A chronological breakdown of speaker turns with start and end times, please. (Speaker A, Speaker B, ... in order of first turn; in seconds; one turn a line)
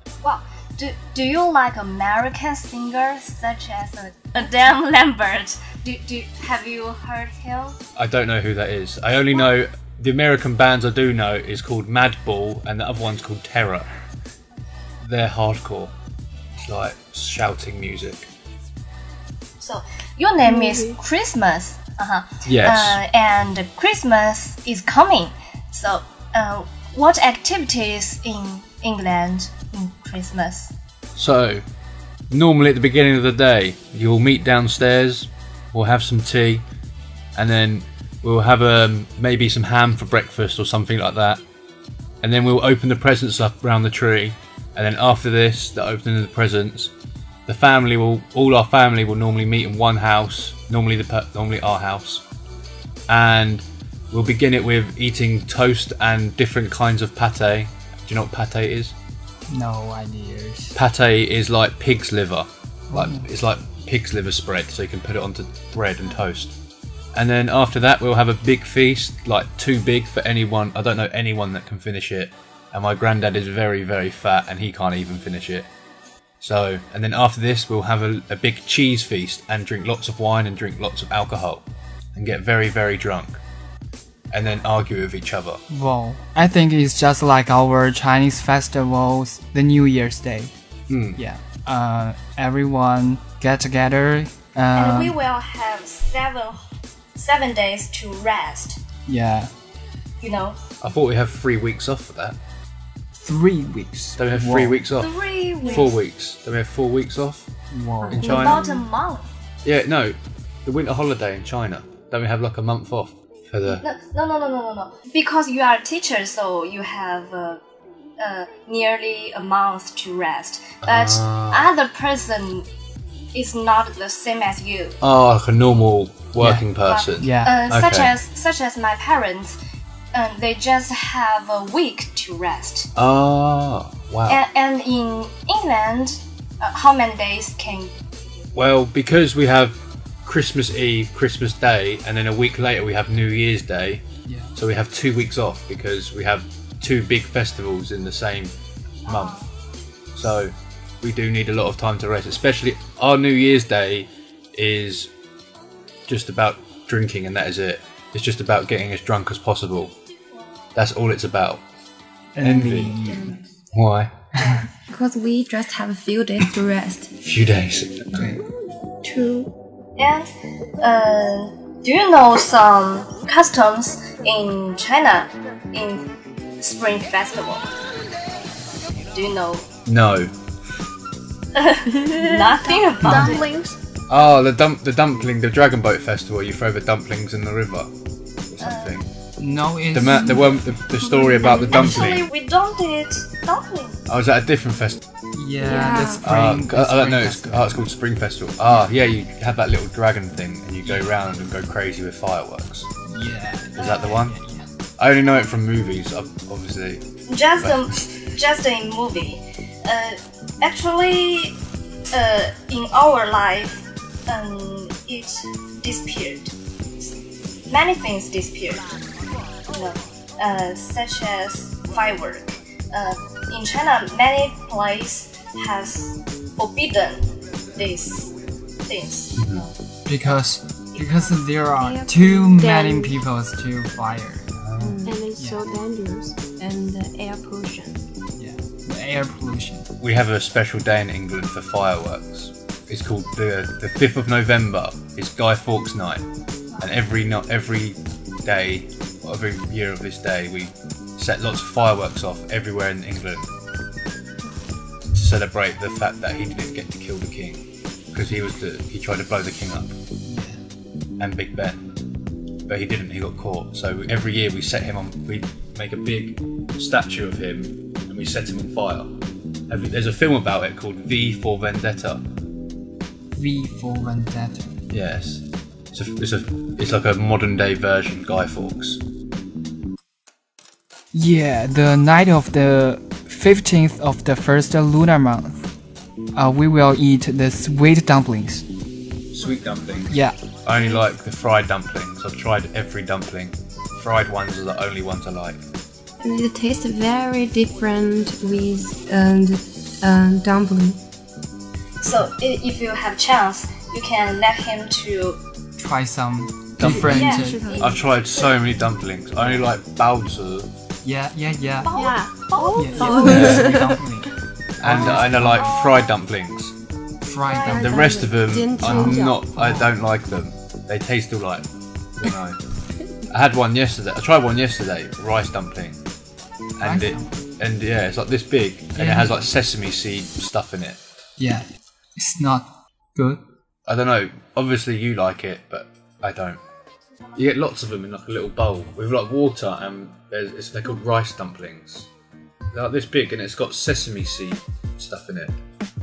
Speaker A: 0.2-7.8
Speaker B: 8.0-13.9
Speaker B: 15.0-15.9
Speaker B: 16.5-18.3
Speaker A: 19.6-30.7
Speaker C: 20.5-20.9
Speaker B: 22.4-23.0
Speaker B: 31.1-31.6
Speaker B: 32.3-36.6
Speaker B: 37.3-41.4
Speaker B: 42.2-46.9
Speaker B: 47.5-52.2
Speaker B: 53.1-59.0
Speaker D: 59.5-60.8
Speaker B: 60.7-66.5
Speaker D: 62.9-63.2
Speaker B: 67.1-75.7
Speaker B: 76.4-83.4
Speaker B: 84.3-85.6
Speaker D: 85.7-90.5
Speaker B: 90.9-91.2
Speaker D: 91.1-95.2
Speaker A: 94.7-96.6
Speaker A: 97.2-98.8
Speaker D: 99.1-99.5
Speaker A: 100.2-100.6
Speaker B: 100.8-102.4
Speaker D: 103.2-104.8
Speaker B: 104.2-107.5
Speaker A: 105.0-106.0
Speaker D: 107.7-108.6
Speaker B: 108.1-108.7
Speaker A: 108.2-109.3
Speaker B: 109.6-113.8
Speaker A: 113.7-117.6
Speaker A: 118.2-122.7
Speaker B: 120.8-121.7
Speaker A: 123.3-125.0
Speaker B: 125.0-128.1
Speaker D: 126.4-126.6
Speaker A: 126.8-129.6
Speaker D: 127.2-127.5
Speaker A: 130.1-132.9
Speaker B: 132.9-134.4
Speaker A: 134.3-138.2
Speaker B: 138.5-148.5
Speaker B: 149.0-149.4
Speaker A: 149.1-149.4
Speaker B: 150.1-155.1
Speaker B: 156.1-159.9
Speaker B: 160.7-161.6
Speaker D: 162.3-163.4
Speaker B: 162.4-163.1
Speaker B: 163.7-164.2
Speaker E: 164.9-167.1
Speaker B: 167.2-168.3
Speaker D: 168.1-168.4
Speaker E: 169.0-169.5
Speaker A: 170.0-170.3
Speaker A: 170.8-176.0
Speaker A: 176.6-177.7
Speaker A: 179.1-179.7
Speaker B: 179.8-180.3
Speaker A: 181.5-183.4
Speaker E: 181.9-183.8
Speaker D: 183.0-183.4
Speaker B: 184.1-187.9
Speaker B: 188.5-189.1
Speaker A: 188.6-189.0
Speaker D: 189.4-190.8
Speaker B: 189.9-192.3
Speaker E: 191.2-191.6
Speaker A: 191.8-194.0
Speaker B: 194.1-195.0
Speaker D: 195.3-197.8
Speaker E: 195.6-196.2
Speaker B: 196.2-202.9
Speaker D: 203.1-204.7
Speaker B: 203.8-204.3
Speaker A: 203.8-204.0
Speaker B: 205.0-207.1
Speaker A: 207.3-211.5
Speaker B: 207.6-208.2
Speaker A: 212.1-217.1
Speaker A: 217.7-218.8
Speaker A: 219.7-228.3
Speaker A: 228.8-229.7
Speaker B: 229.3-229.7
Speaker D: 230.1-235.6
Speaker A: 230.9-231.3
Speaker E: 231.8-233.1
Speaker C: 232.6-232.9
Speaker B: 234.6-235.0
Speaker E: 235.0-235.3
Speaker C: 235.0-236.3
Speaker E: 236.6-238.0
Speaker D: 238.4-239.9
Speaker B: 240.0-246.2
Speaker B: 246.8-253.5
Speaker B: 255.1-259.9
Speaker D: 260.2-260.6
Speaker B: 261.2-261.9
Speaker B: 262.7-269.1
Speaker B: 269.7-272.2
Speaker D: 273.3-274.7
Speaker B: 274.9-279.0
Speaker D: 281.1-285.6
Speaker D: 286.3-288.6
Speaker B: 289.3-295.6
Speaker D: 290.1-290.4
Speaker E: 296.2-301.0
Speaker A: 302.0-305.4
Speaker D: 305.8-307.7
Speaker B: 306.8-310.7
Speaker E: 307.0-308.0
Speaker A: 307.1-307.9
Speaker D: 311.0-311.9
Speaker A: 311.8-313.4
Speaker C: 311.9-313.6
Speaker E: 312.6-314.0
Speaker D: 312.7-314.3
Speaker B: 314.8-316.8
Speaker D: 314.8-315.7
Speaker A: 315.4-316.1
Speaker D: 317.2-318.2
Speaker A: 317.4-317.9
Speaker B: 317.7-322.6
Speaker E: 317.9-319.4
Speaker C: 318.0-319.3
Speaker D: 319.5-319.9
Speaker B: 323.3-326.0
Speaker B: 326.8-331.1
Speaker D: 326.8-327.4
Speaker D: 328.9-329.3
Speaker D: 331.4-333.4
Speaker B: 333.9-336.6
Speaker B: 337.3-342.1
Speaker B: 342.7-345.6